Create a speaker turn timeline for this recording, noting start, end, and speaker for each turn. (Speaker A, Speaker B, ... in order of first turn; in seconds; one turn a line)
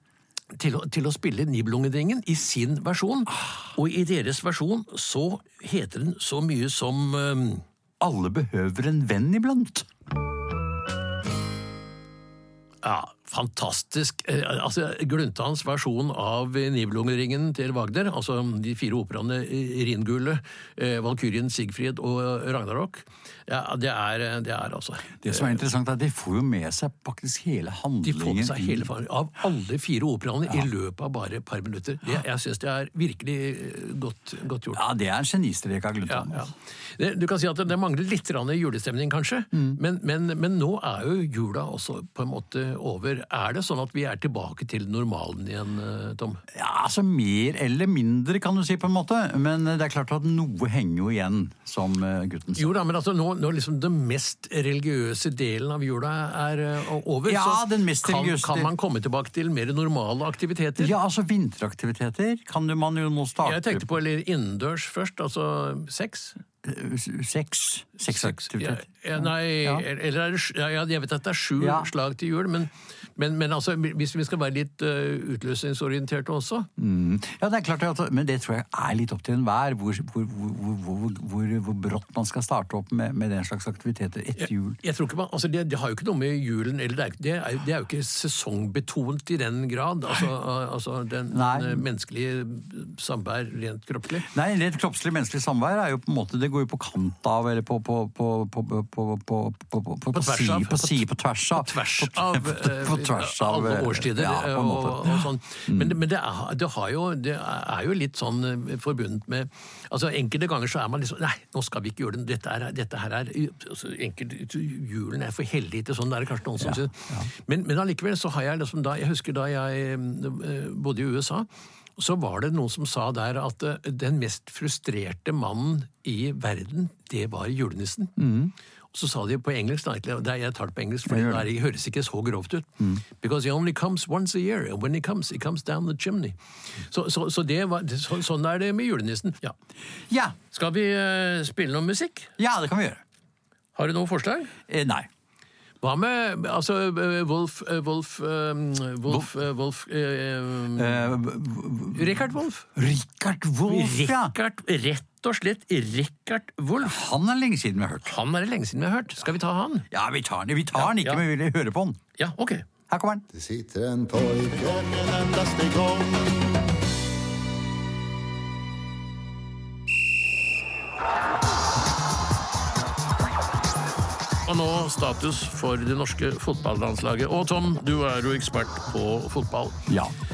Speaker A: 0.5-7.7
Speaker B: 8.0-9.9
Speaker A: 12.8-25.6
Speaker B: 25.2-28.9
Speaker A: 28.0-34.8
Speaker B: 34.7-36.5
Speaker A: 36.1-46.4
Speaker B: 39.5-39.8
Speaker B: 46.5-52.8
Speaker A: 52.6-61.0
Speaker B: 57.3-58.7
Speaker B: 60.8-63.9
Speaker A: 63.4-66.4
Speaker B: 66.6-69.8
Speaker A: 68.1-76.7
Speaker B: 71.6-71.9
Speaker B: 76.8-84.8
Speaker A: 84.4-94.3
Speaker B: 91.3-91.8
Speaker B: 94.2-106.0
Speaker A: 100.1-128.2
Speaker B: 116.6-117.3
Speaker B: 128.2-128.5
Speaker A: 128.9-139.6
Speaker B: 131.1-131.5
Speaker B: 140.1-140.4
Speaker A: 140.5-142.3
Speaker B: 142.4-143.0
Speaker A: 143.8-144.6
Speaker B: 144.7-145.1
Speaker A: 145.8-151.1
Speaker B: 150.8-154.3
Speaker A: 151.9-152.7
Speaker A: 153.6-157.0
Speaker B: 156.8-158.2
Speaker A: 158.1-159.9
Speaker B: 159.9-162.0
Speaker A: 160.8-161.2
Speaker A: 162.2-162.7
Speaker B: 162.9-163.3
Speaker C: 163.3-166.5
Speaker A: 174.5-179.8
Speaker B: 179.9-180.1